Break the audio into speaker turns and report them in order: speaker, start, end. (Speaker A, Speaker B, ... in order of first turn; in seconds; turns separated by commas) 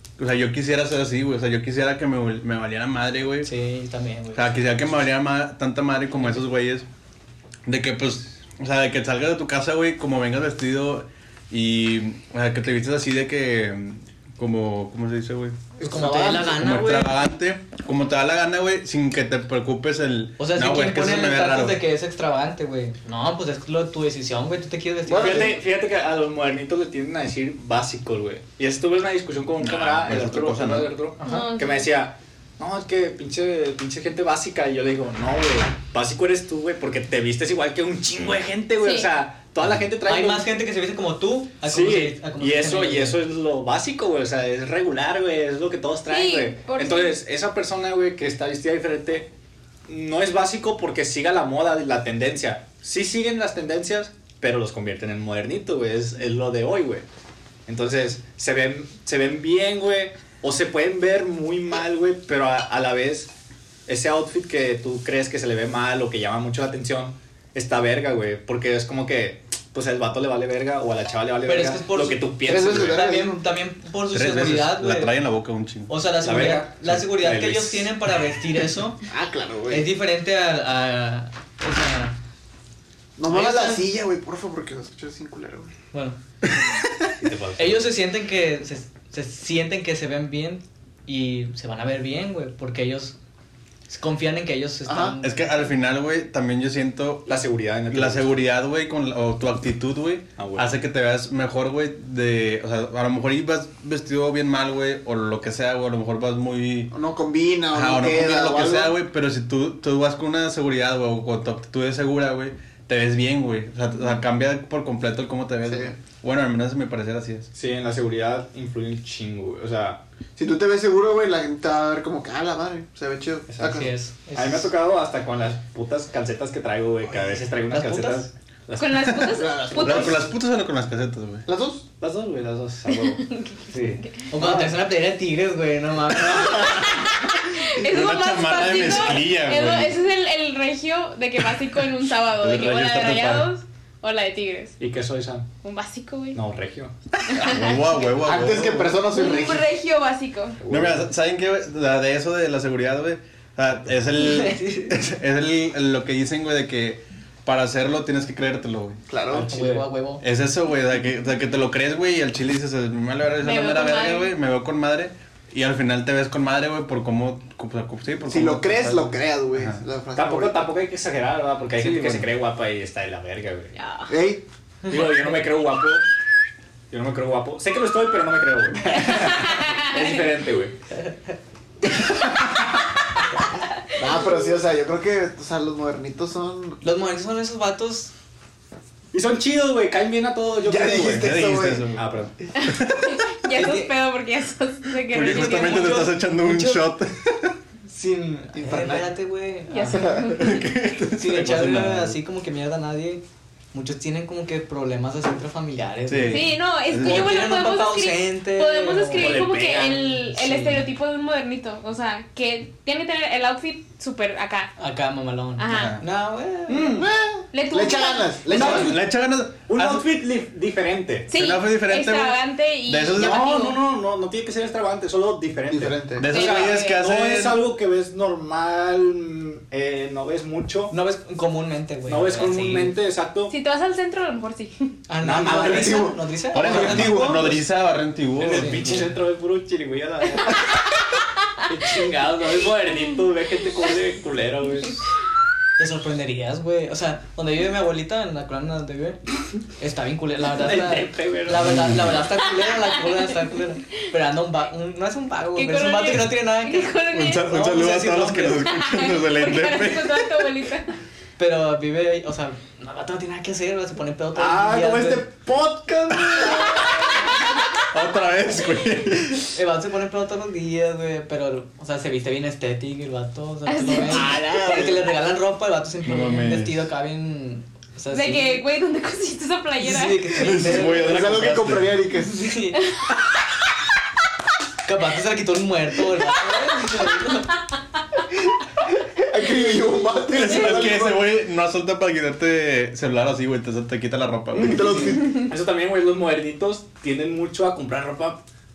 Speaker A: 0.2-3.5, Speaker B: 3.4-4.5, Speaker A: 4.3-6.9, Speaker A: 7.7-15.6, Speaker C: 15.8-16.6, Speaker B: 15.8-17.1, Speaker A: 16.4-21.8, Speaker B: 20.4-25.5, Speaker C: 25.1-25.6, Speaker D: 25.1-40.5, Speaker A: 29.6-30.9, Speaker E: 31.2-31.9, Speaker E: 38.8-39.1, Speaker B: 40.0-43.2, Speaker D: 41.6-49.3, Speaker E: 46.1-47.2, Speaker D: 49.9-57.0, Speaker D: 57.7-63.3, Speaker D: 63.9-73.0, Speaker B: 71.4-72.2, Speaker C: 72.4-73.4, Speaker B: 72.8-75.2, Speaker A: 74.1-75.9, Speaker B: 75.9-79.0, Speaker D: 76.2-77.9, Speaker C: 79.1-79.9, Speaker B: 79.7-82.1, Speaker C: 83.2-85.7, Speaker B: 83.3-83.8, Speaker B: 85.9-86.2, Speaker D: 87.2-87.8, Speaker B: 87.6-93.2, Speaker B: 93.9-95.5, Speaker C: 94.8-95.2, Speaker A: 95.2-97.3, Speaker D: 97.3-98.4, Speaker A: 97.9-106.9, Speaker D: 100.4-100.7, Speaker C: 106.9-109.0, Speaker A: 107.7-117.5, Speaker C: 115.6-115.9, Speaker D: 117.5-120.0, Speaker C: 120.3-123.9, Speaker D: 123.5-129.1, Speaker B: 123.6-124.7, Speaker B: 127.7-128.3, Speaker E: 128.8-130.2, Speaker C: 129.3-130.3, Speaker A: 129.8-131.4, Speaker C: 131.5-131.8, Speaker D: 132.0-134.8, Speaker E: 132.9-133.6, Speaker B: 134.3-136.8, Speaker E: 136.3-144.8, Speaker A: 137.8-140.0, Speaker A: 142.4-143.5, Speaker D: 144.8-145.5, Speaker E: 145.6-146.4, Speaker D: 146.3-146.9, Speaker E: 147.3-148.0, Speaker A: 147.3-149.0, Speaker C: 148.2-149.7, Speaker E: 149.1-150.6, Speaker D: 150.6-151.1, Speaker A: 150.7-159.6, Speaker B: 154.2-154.9, Speaker C: 159.1-159.5, Speaker B: 159.4-160.2, Speaker A: 160.2-169.8, Speaker E: 163.4-164.3, Speaker C: 168.3-170.7, Speaker D: 170.2-173.7, Speaker B: 171.8-172.3, Speaker E: 173.7-174.1, Speaker C: 174.1-174.4, Speaker D: 174.9-176.1, Speaker D: 176.9-180.7, Speaker C: 178.9-179.3, Speaker E: 178.9-180.2, Speaker C: 184.0-186.8, Speaker B: 186.8-188.1, Speaker D: 189.1-191.4, Speaker C: 190.6-191.9, Speaker A: 190.9-192.0, Speaker D: 192.0-192.3, Speaker E: 192.5-196.2, Speaker A: 192.6-193.4, Speaker B: 193.5-193.9, Speaker A: 195.0-197.5, Speaker D: 195.2-196.2, Speaker B: 196.3-196.8, Speaker B: 197.9-200.1, Speaker C: 198.5-199.1, Speaker E: 199.7-200.7, Speaker C: 199.9-200.5, Speaker A: 200.3-202.2, Speaker B: 201.1-209.4, Speaker A: 206.1-207.6, Speaker E: 206.3-214.7, Speaker D: 209.1-210.2, Speaker B: 210.3-210.8, Speaker B: 214.8-217.0, Speaker E: 215.6-216.0, Speaker A: 215.7-216.0, Speaker D: 216.7-217.1, Speaker C: 217.0-219.0, Speaker E: 217.5-218.7, Speaker D: 218.5-219.1, Speaker A: 218.5-220.1, Speaker D: 219.7-221.3, Speaker E: 221.3-223.8, Speaker A: 221.3-223.6, Speaker D: 223.2-230.9, Speaker C: 225.7-226.2, Speaker A: 226.2-227.6, Speaker E: 226.3-227.0, Speaker B: 230.9-232.9, Speaker D: 232.1-233.5, Speaker E: 233.5-234.9, Speaker B: 235.1-237.5, Speaker D: 235.2-236.1, Speaker C: 235.3-237.6, Speaker A: 236.5-239.1, Speaker D: 238.3-240.8, Speaker B: 238.5-239.1, Speaker D: 241.7-245.1, Speaker B: 245.8-249.2, Speaker B: 249.8-258.7, Speaker D: 250.4-251.9, Speaker A: 251.5-252.2, Speaker E: 255.5-257.7, Speaker A: 257.1-260.5, Speaker E: 258.7-260.9, Speaker B: 261.4-265.3, Speaker D: 264.3-267.0, Speaker E: 266.6-267.8, Speaker A: 267.9-269.5, Speaker B: 269.5-278.6, Speaker E: 273.6-274.9, Speaker D: 274.1-274.9, Speaker A: 274.6-274.9, Speaker A: 276.0-276.8, Speaker E: 278.1-280.8, Speaker B: 279.8-281.3, Speaker A: 280.3-281.9, Speaker C: 280.8-282.4, Speaker B: 282.1-282.8, Speaker E: 282.7-283.1, Speaker B: 284.8-287.5, Speaker C: 289.1-291.4, Speaker A: 290.3-295.1, Speaker D: 294.5-298.4, Speaker C: 294.6-295.5